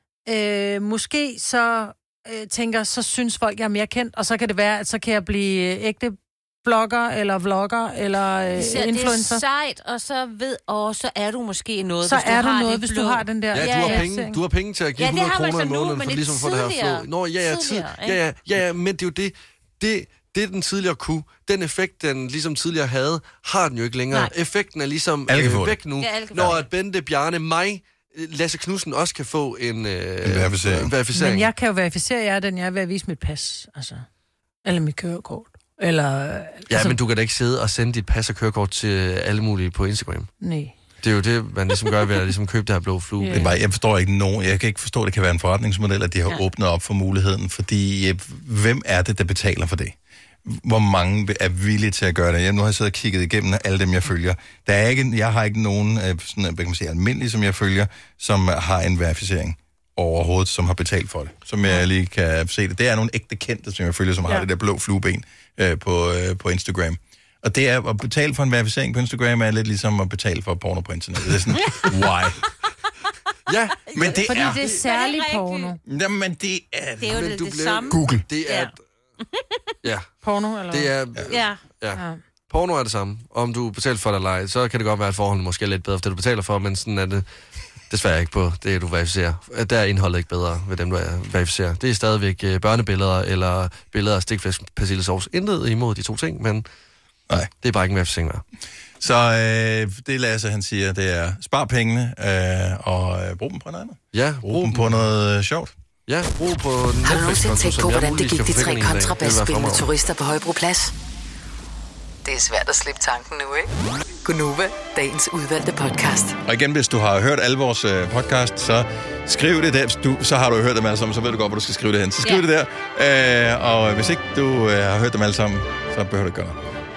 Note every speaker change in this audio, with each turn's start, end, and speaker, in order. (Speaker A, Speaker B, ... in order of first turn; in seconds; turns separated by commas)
Speaker A: 0.3-9.4, Speaker B: 8.6-14.1, Speaker A: 12.0-14.4, Speaker C: 13.5-31.5, Speaker B: 15.0-18.2, Speaker D: 25.3-25.8, Speaker B: 26.0-26.6, Speaker D: 30.2-30.9, Speaker A: 31.1-34.0, Speaker A: 34.6-37.0, Speaker C: 36.7-40.3, Speaker A: 40.4-40.8, Speaker C: 41.0-43.5, Speaker A: 43.2-43.5, Speaker D: 43.3-72.4, Speaker C: 73.5-73.9, Speaker B: 73.9-75.7, Speaker D: 73.9-74.6, Speaker A: 74.3-75.8, Speaker D: 75.8-77.2, Speaker B: 77.0-78.7, Speaker C: 77.1-78.7, Speaker D: 77.9-78.2, Speaker B: 79.2-79.7, Speaker C: 79.8-80.1, Speaker A: 80.2-80.9, Speaker C: 80.7-87.2, Speaker B: 81.3-81.6, Speaker A: 81.9-82.2, Speaker C: 87.9-96.7, Speaker C: 97.6-98.4, Speaker D: 99.0-105.7, Speaker C: 104.1-105.0, Speaker C: 106.1-109.9, Speaker E: 107.0-110.9, Speaker E: 112.2-113.7, Speaker E: 114.2-116.4, Speaker D: 116.5-126.6